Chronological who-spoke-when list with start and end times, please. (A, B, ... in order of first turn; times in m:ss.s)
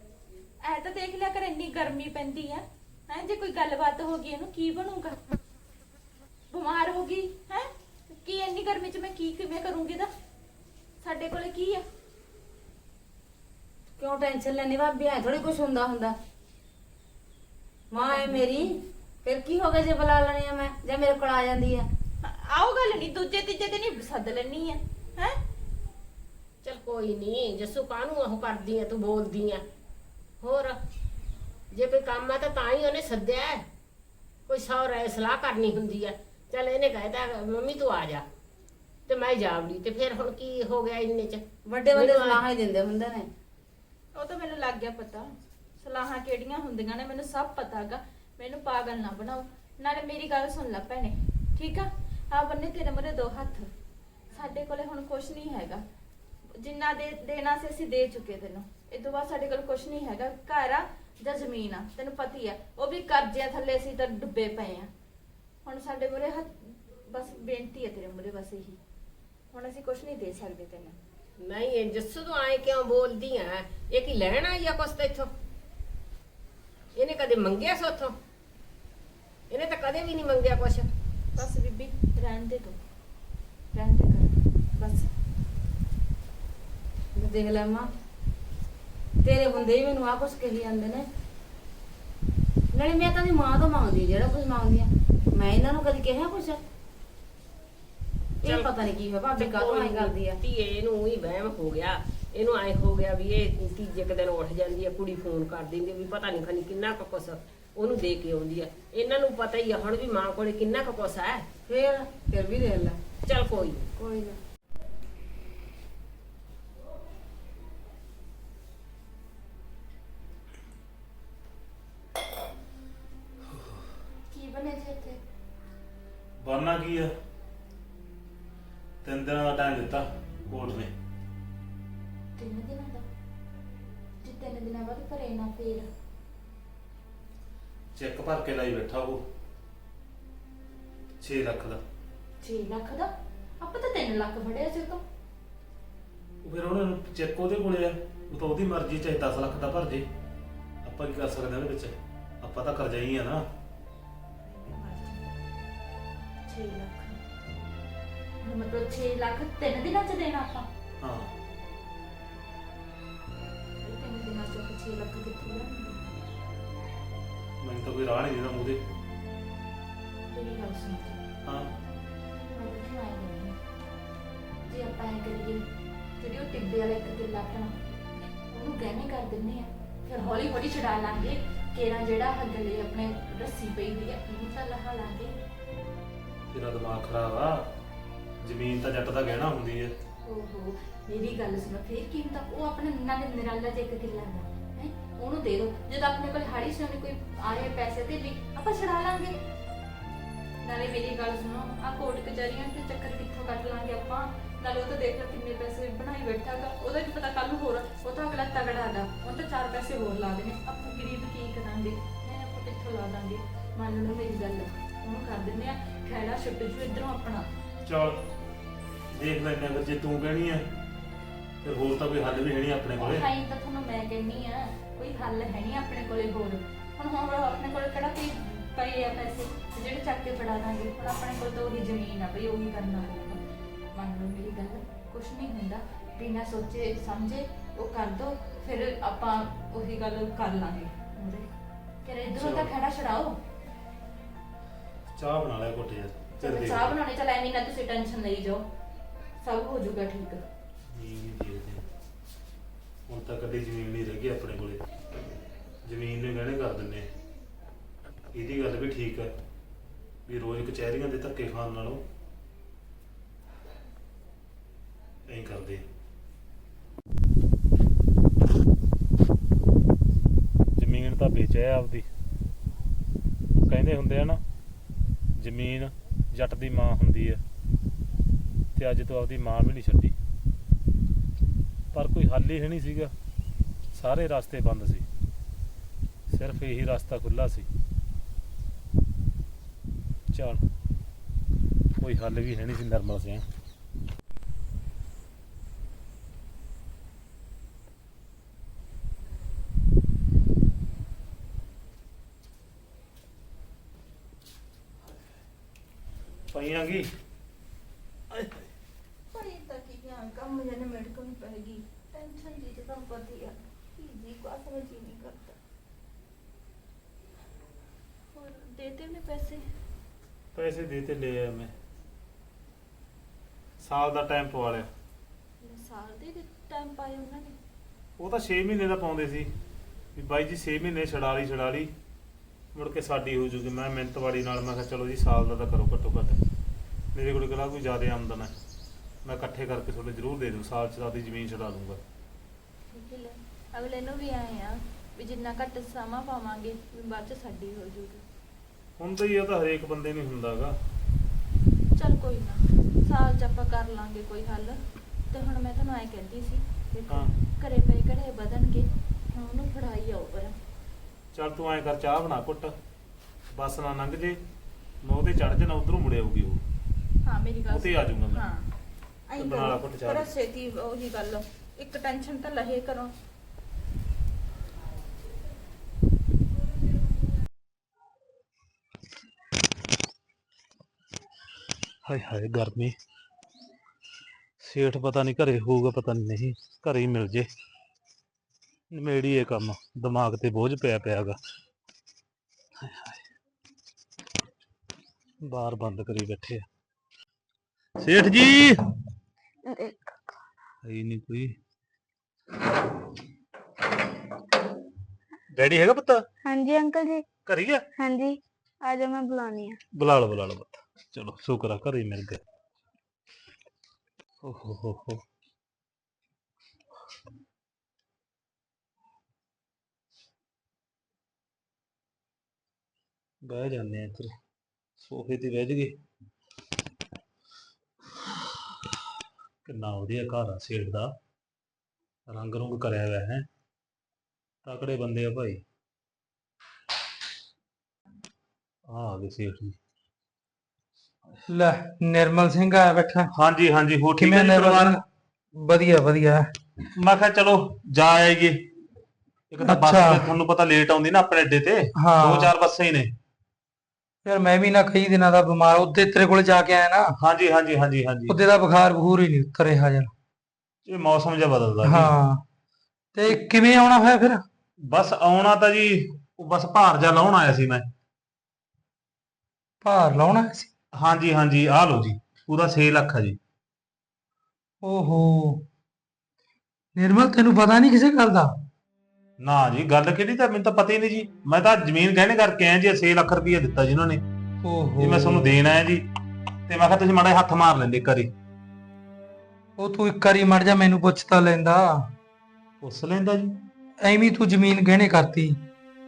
0:00.6-0:05.2 A
0:06.5-0:10.1 A
0:11.0-0:11.8 A
0:14.0-0:16.2 B
0:17.9-0:21.9 B
0:18.0-0:18.4 A
0:22.2-0:25.4 A
0:26.6-0:29.6 C
0:30.4-0:30.8 C
0:31.7-0:33.6 C
0:34.5-0:38.2 C
0:39.1-0:42.4 C
0:41.7-0:43.3 B
0:44.2-0:53.7 A
0:54.3-0:55.8 A
0:56.6-1:04.9 A
1:05.6-1:08.8 A
1:09.5-1:11.0 A
1:11.4-1:15.3 C
1:17.0-1:18.2 C
1:19.5-1:20.9 C
1:21.4-1:22.8 A
1:23.7-1:25.1 A
1:27.2-1:27.9 B
1:29.2-1:31.1 B
1:32.7-1:36.6 B
1:38.4-1:51.6 C
1:38.4-1:40.4 B
1:51.7-1:52.9 B
1:53.2-1:53.9 C
1:54.0-1:54.4 B
2:03.5-2:03.8 D
2:04.3-2:05.2 A
2:06.4-2:07.1 D
2:09.0-2:10.9 D
2:12.4-2:13.0 A
2:14.2-2:15.9 A
2:18.0-2:19.2 D
2:21.2-2:21.8 D
2:22.4-2:25.0 A
2:26.4-2:30.1 D
2:30.8-2:33.5 D
2:34.4-2:35.2 A
2:36.5-2:37.2 A
2:38.4-2:40.7 A
2:41.0-2:41.3 D
2:43.8-2:46.1 A
2:47.6-2:48.8 D
2:50.3-2:51.2 A
2:51.4-2:51.7 D
2:52.5-2:53.6 A
2:54.7-2:55.6 A
2:56.2-2:57.8 A
2:58.5-3:05.4 A
3:06.5-3:07.7 D
3:08.4-3:10.0 D
3:10.2-3:19.4 A
3:20.6-3:37.5 A
3:37.8-3:38.2 D
3:39.1-3:40.7 D
3:41.6-3:43.2 D
3:43.0-3:53.4 A
3:53.9-4:01.5 A
4:02.0-4:03.4 A
4:02.4-4:02.7 D
4:05.1-4:07.0 D
4:06.4-4:08.6 A
4:09.4-4:10.4 A
4:10.9-4:11.8 D
4:13.1-4:14.9 D
4:15.8-4:17.1 D
4:18.3-4:19.3 D
4:20.3-4:22.0 D
4:25.3-4:25.9 D
4:30.8-4:32.1 D
4:33.6-4:34.4 D
4:35.4-4:37.4 D
4:38.8-4:40.2 D
4:41.9-4:43.1 D
4:43.9-4:45.1 D
4:46.3-4:47.7 D
4:50.3-4:50.6 D
4:52.0-4:53.5 D
5:06.5-5:07.1 D
5:08.3-5:08.7 D
5:09.3-5:15.6 A
5:18.3-5:19.6 A
5:20.6-5:21.7 D
5:23.8-5:24.9 D
5:25.6-5:27.6 A
5:28.2-5:29.5 D
5:30.2-5:31.9 D
5:32.7-5:36.4 D
5:37.1-5:38.5 D
5:39.2-5:42.0 D
5:42.9-5:48.2 A
5:49.0-5:50.8 D
5:52.0-6:00.6 A
6:01.3-6:02.8 D
6:03.5-6:04.4 D
6:05.0-6:06.6 D
6:07.2-6:08.6 A
6:07.7-6:08.5 D
6:09.3-6:13.1 A
6:09.4-6:10.3 D
6:22.1-6:23.0 D
6:24.6-6:27.5 D
6:28.9-6:31.4 D
6:32.8-6:33.2 D
6:35.4-6:36.6 D
6:38.0-6:38.8 D
6:39.7-6:40.2 E
6:40.8-6:41.5 D
6:45.5-6:46.2 D
6:46.4-6:47.2 E
6:47.5-6:47.8 D
6:48.0-6:49.8 E
6:50.0-6:52.4 D
6:54.4-6:55.2 D
7:03.4-7:04.3 D
7:05.0-7:06.0 D
7:09.7-7:11.1 D
7:12.3-7:13.5 D
7:14.6-7:15.6 D
7:18.9-7:19.8 D
7:21.5-7:23.3 F
7:23.4-7:25.0 D
7:24.2-7:25.0 F
7:25.6-7:26.5 F
7:27.0-7:28.6 D
7:29.5-7:33.1 D
7:29.6-7:30.3 F
7:32.0-7:32.5 F
7:34.2-7:37.1 F
7:37.2-7:38.4 D
7:38.3-7:40.1 F
7:40.9-7:42.1 D
7:41.8-7:42.4 F
7:43.1-7:44.4 F
7:44.9-7:47.9 D
7:49.8-7:50.7 F
7:51.0-7:53.4 D
7:54.8-7:55.6 F
7:57.0-7:58.5 F
7:59.4-8:04.2 D
8:04.6-8:05.6 F
8:05.0-8:06.0 D
8:06.7-8:08.3 D
8:09.8-8:12.1 F
8:12.8-8:13.6 D
8:14.0-8:15.6 F